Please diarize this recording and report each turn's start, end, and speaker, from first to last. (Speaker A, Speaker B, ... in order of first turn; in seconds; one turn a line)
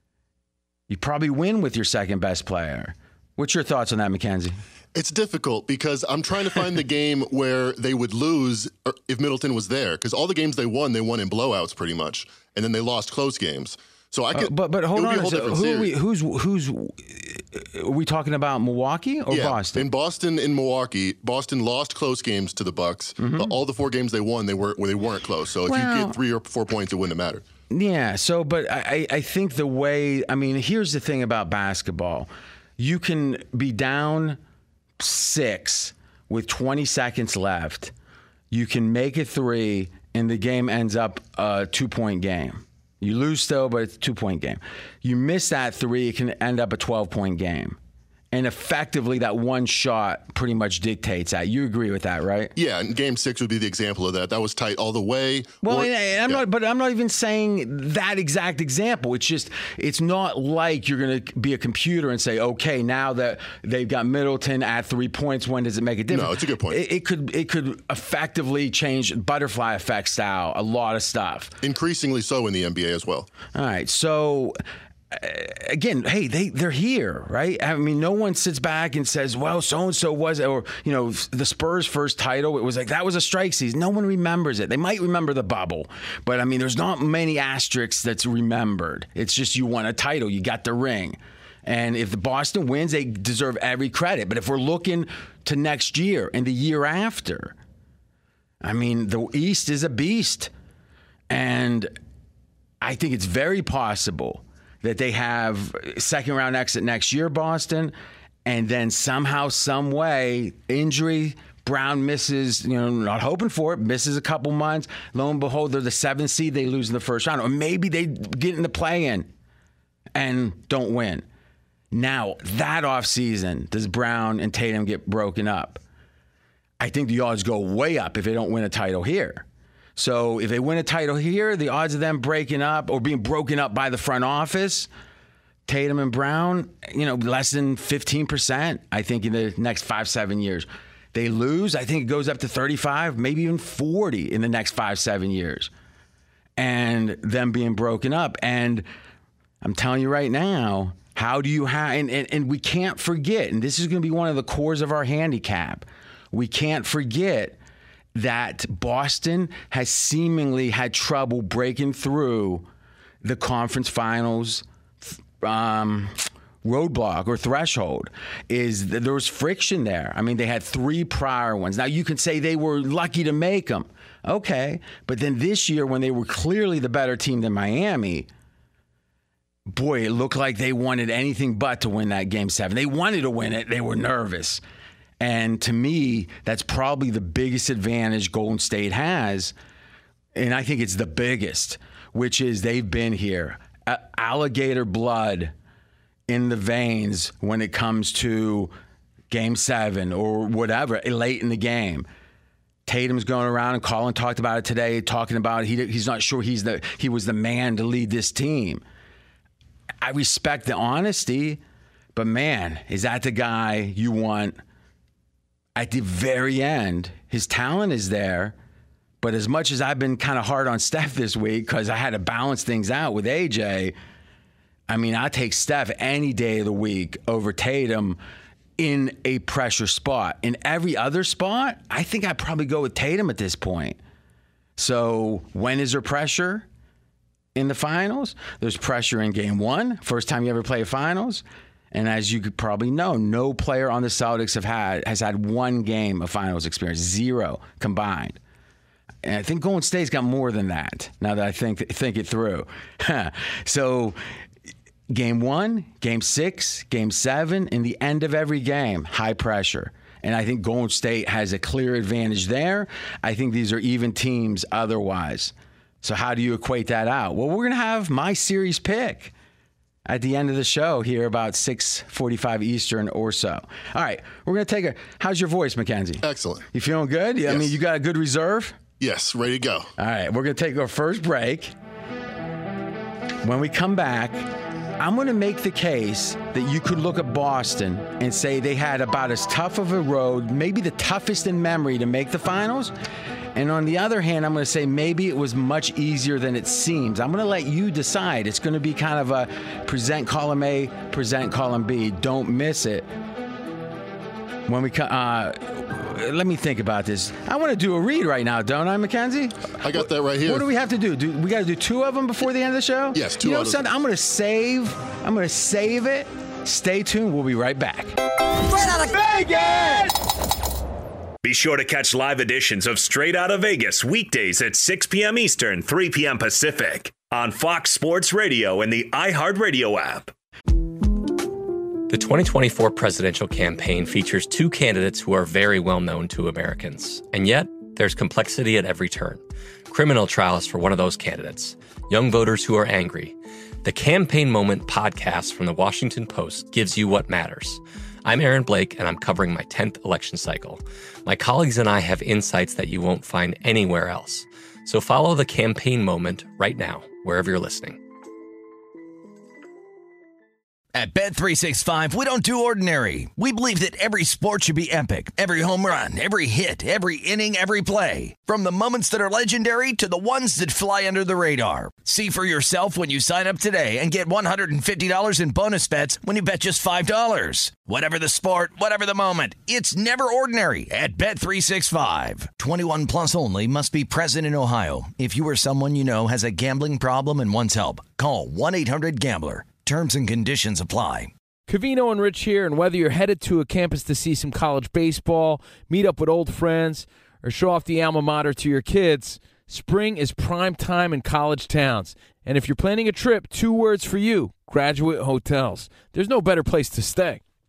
Speaker A: 0.9-4.6
Speaker B: 5.0-15.9
Speaker A: 14.3-19.9
Speaker B: 19.3-27.4
Speaker A: 23.2-23.5
Speaker A: 25.7-26.2
Speaker A: 27.7-34.4
Speaker A: 35.0-37.9
Speaker A: 38.5-47.8
Speaker A: 48.3-52.5
Speaker B: 52.6-56.4
Speaker A: 55.6-71.5
Speaker B: 66.1-66.8
Speaker B: 71.6-73.3
Speaker A: 73.5-74.6
Speaker A: 75.1-97.5
Speaker A: 98.6-100.5
Speaker A: 101.3-101.9
Speaker A: 102.8-107.9
Speaker A: 108.5-119.3
Speaker A: 120.2-121.2
Speaker A: 121.9-125.8
Speaker A: 126.8-129.4
Speaker A: 130.0-134.9
Speaker A: 135.7-145.7
Speaker A: 146.6-148.9
Speaker A: 149.6-157.6
Speaker A: 158.2-162.7
Speaker A: 163.2-164.6
Speaker A: 165.4-178.3
Speaker A: 179.7-184.6
Speaker A: 185.2-189.5
Speaker A: 190.3-195.5
Speaker A: 196.3-198.7
Speaker A: 199.3-202.1
Speaker A: 202.9-208.8
Speaker A: 210.0-211.6
Speaker A: 212.2-214.6
Speaker A: 215.8-218.6
Speaker A: 219.2-223.9
Speaker A: 224.9-228.2
Speaker A: 228.8-234.0
Speaker A: 234.8-236.7
Speaker A: 237.6-248.4
Speaker A: 249.2-254.2
Speaker A: 255.1-269.3
Speaker A: 270.1-278.8
Speaker B: 276.2-276.7
Speaker B: 279.0-279.9
Speaker A: 280.0-281.7
Speaker A: 283.4-284.5
Speaker A: 285.0-292.9
Speaker A: 293.6-303.1
Speaker A: 304.7-309.8
Speaker B: 309.8-310.7
Speaker A: 310.4-318.2
Speaker B: 313.1-313.9
Speaker C: 318.7-320.0
Speaker C: 321.4-330.3
Speaker D: 332.1-358.0
Speaker E: 360.9-391.3
Speaker F: 391.7-407.4